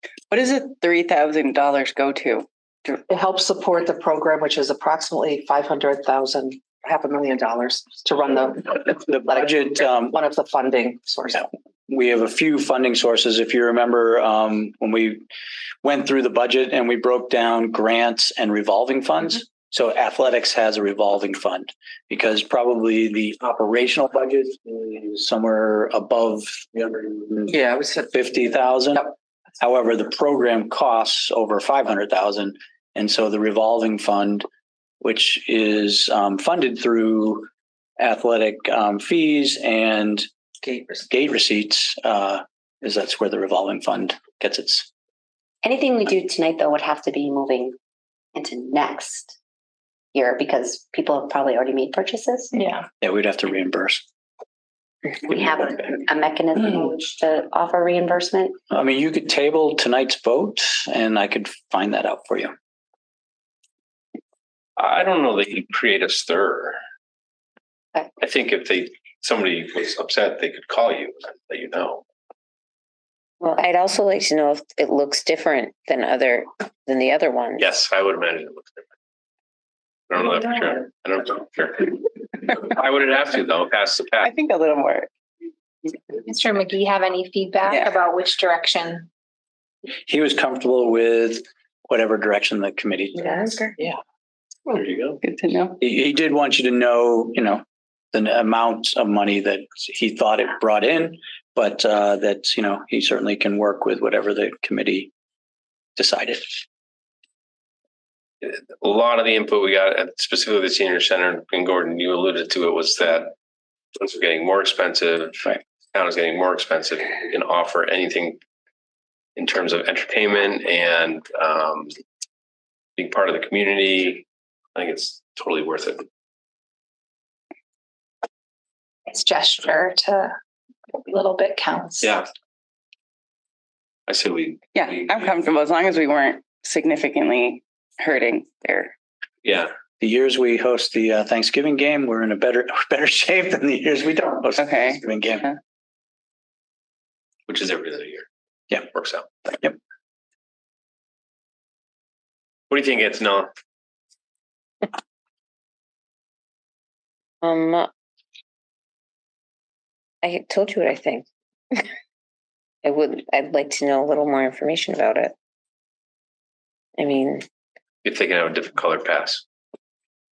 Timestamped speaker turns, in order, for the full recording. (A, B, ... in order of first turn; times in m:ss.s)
0:00.3-0:03.0 A
0:03.1-0:11.5 B
0:08.9-0:10.2 C
0:11.9-0:15.2 C
0:15.8-0:27.5 C
0:27.5-0:28.1 B
0:28.1-0:34.4 C
0:35.0-0:37.5 C
0:38.0-0:40.2 C
0:40.6-0:41.0 B
0:41.1-0:44.9 C
0:45.6-0:47.7 D
0:48.3-0:49.4 D
0:50.1-0:52.5 D
0:53.0-0:54.0 C
0:55.2-0:58.5 D
0:58.7-1:02.5 C
1:04.8-1:06.8 E
1:08.2-1:12.0 E
1:13.4-1:17.7 F
1:17.6-1:18.8 E
1:20.1-1:22.0 E
1:22.5-1:24.3 E
1:24.2-1:25.1 A
1:26.2-1:29.1 G
1:27.7-1:28.0 A
1:30.1-1:33.6 C
1:33.4-1:33.7 G
1:34.8-1:35.2 E
1:35.2-1:35.8 A
1:35.8-1:45.1 C
1:46.0-1:46.5 C
1:48.4-1:53.3 E
1:54.0-1:58.4 E
1:59.4-2:01.9 E
2:03.0-2:06.0 E
2:09.1-2:10.4 G
2:10.9-2:12.1 G
2:14.1-2:15.3 E
2:14.7-2:18.9 A
2:19.4-2:19.7 E
2:20.0-2:25.5 C
2:24.6-2:25.0 A
2:27.5-2:28.3 E
2:28.9-2:29.3 E
2:32.7-2:33.5 E
2:37.4-2:37.9 F
2:40.2-2:41.8 F
2:42.8-2:45.3 F
2:47.0-2:47.4 F
2:48.0-2:49.4 E